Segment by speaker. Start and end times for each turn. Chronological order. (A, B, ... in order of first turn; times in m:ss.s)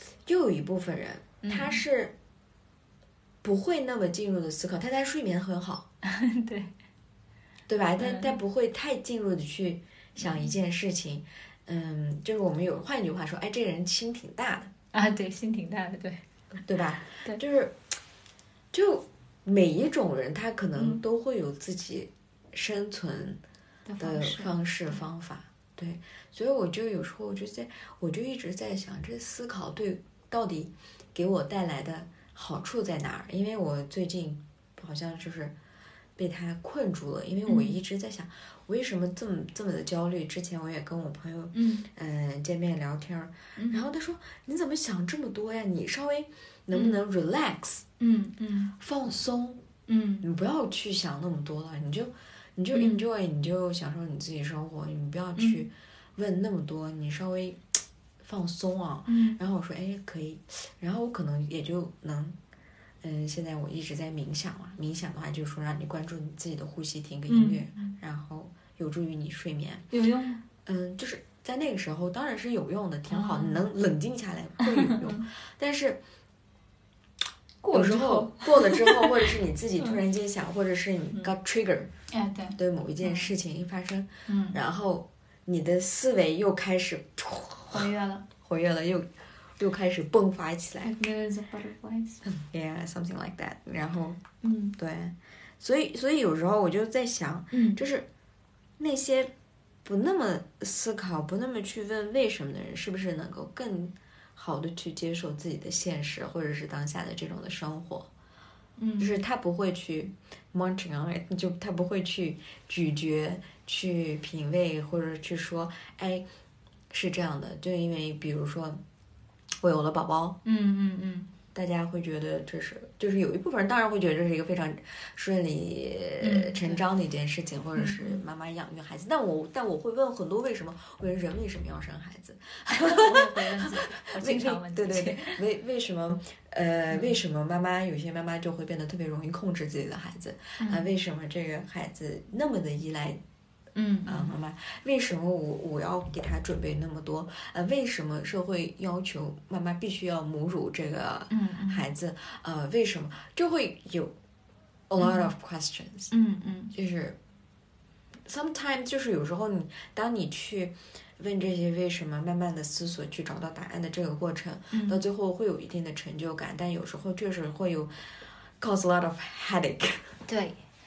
0:00.2-0:02.2 A
0:01.4-0:01.8 B
0:03.4-0:05.9 A
0:06.0-0:06.7 B
0:07.7-0:14.7 A
0:08.0-0:08.4 B
0:10.2-0:10.5 B
0:14.9-0:16.2 B
0:16.6-0:17.9 A
0:18.7-0:23.4 A
0:20.8-0:21.0 B
0:23.9-0:25.0 B
0:24.0-0:35.6 A
0:36.2-0:47.8 A
0:37.5-0:37.8 B
0:41.5-0:41.9 B
0:43.6-0:43.9 B
0:46.7-0:47.0 B
0:48.0-0:48.7 B
0:48.8-0:49.6 A
0:49.9-0:50.3 B
0:50.2-1:02.4 A
0:52.7-0:53.0 B
0:55.4-0:55.6 B
0:59.1-0:59.4 B
1:03.0-1:09.9 A
1:07.3-1:08.0 B
1:09.9-1:10.4 B
1:10.6-1:16.0 A
1:13.1-1:13.6 B
1:14.6-1:15.3 B
1:17.6-1:20.0 B
1:17.7-1:21.9 A
1:22.1-1:23.3 B
1:22.6-1:31.0 A
1:24.3-1:24.6 B
1:27.7-1:28.3 B
1:30.8-1:32.2 B
1:32.2-1:34.2 A
1:34.4-1:34.8 B
1:34.8-1:38.1 A
1:37.5-1:37.8 B
1:38.8-1:39.3 A
1:39.8-1:48.1 A
1:48.8-1:49.2 B
1:49.0-1:56.3 A
1:56.9-1:58.8 A
1:59.6-2:00.4 A
2:00.4-2:01.3 B
2:01.5-2:23.2 A
2:06.2-2:06.8 B
2:07.8-2:08.2 B
2:12.7-2:15.4 B
2:20.6-2:20.9 B
2:23.8-2:24.4 B
2:24.1-2:34.2 A
2:31.3-2:31.8 B
2:34.9-2:36.1 A
2:35.0-2:35.3 B
2:36.1-2:36.7 B
2:36.7-2:37.2 A
2:38.3-2:47.9 A
2:44.7-2:45.0 B
2:48.6-2:50.2 A
2:50.3-2:50.6 B